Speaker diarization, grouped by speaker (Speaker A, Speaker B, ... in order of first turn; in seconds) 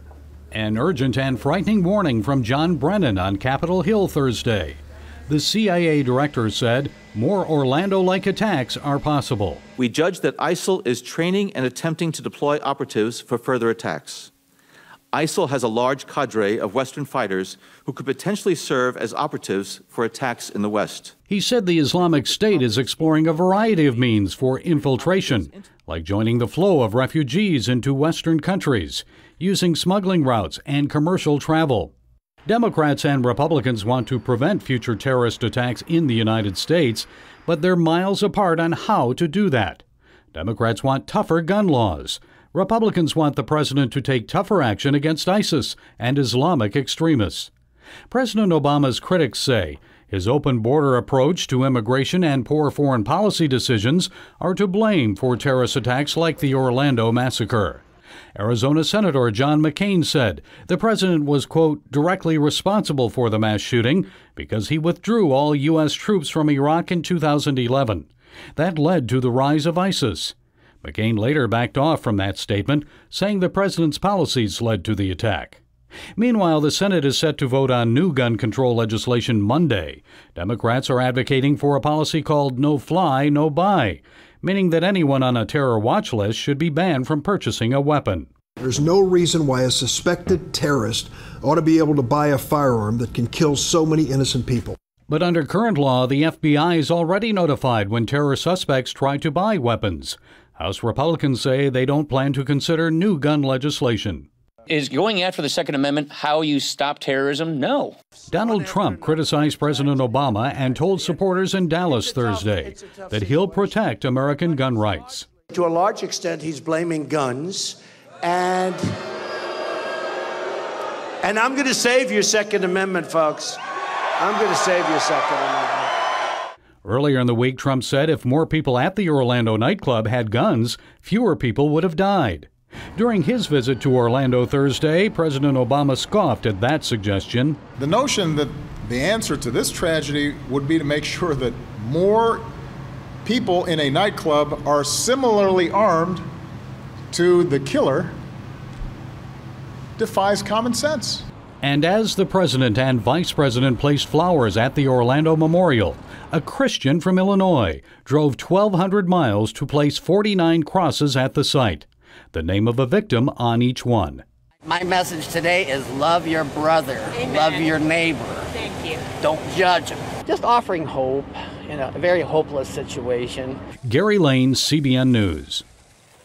Speaker A: 0.5-9.6, 21.3-31.9, 32.5-47.5, 48.1-57.8, 58.3-75.6, 76.2-88.3, 95.1-104.3, 108.3-115.3, 126.8-137.6, 151.6-164.2, 173.8-175.6
Speaker B: 9.8-14.3, 15.1-21.1
Speaker C: 22.8-23.4, 24.3-24.6, 108.4-111.2, 111.8-113.8, 115.5-119.0, 121.2-123.6, 124.2-125.9
Speaker D: 88.6-94.8
Speaker E: 104.7-108.0
Speaker F: 137.8-142.5, 143.2-146.2, 147.1-148.2, 150.0-151.2
Speaker G: 164.6-168.5, 169.2-173.6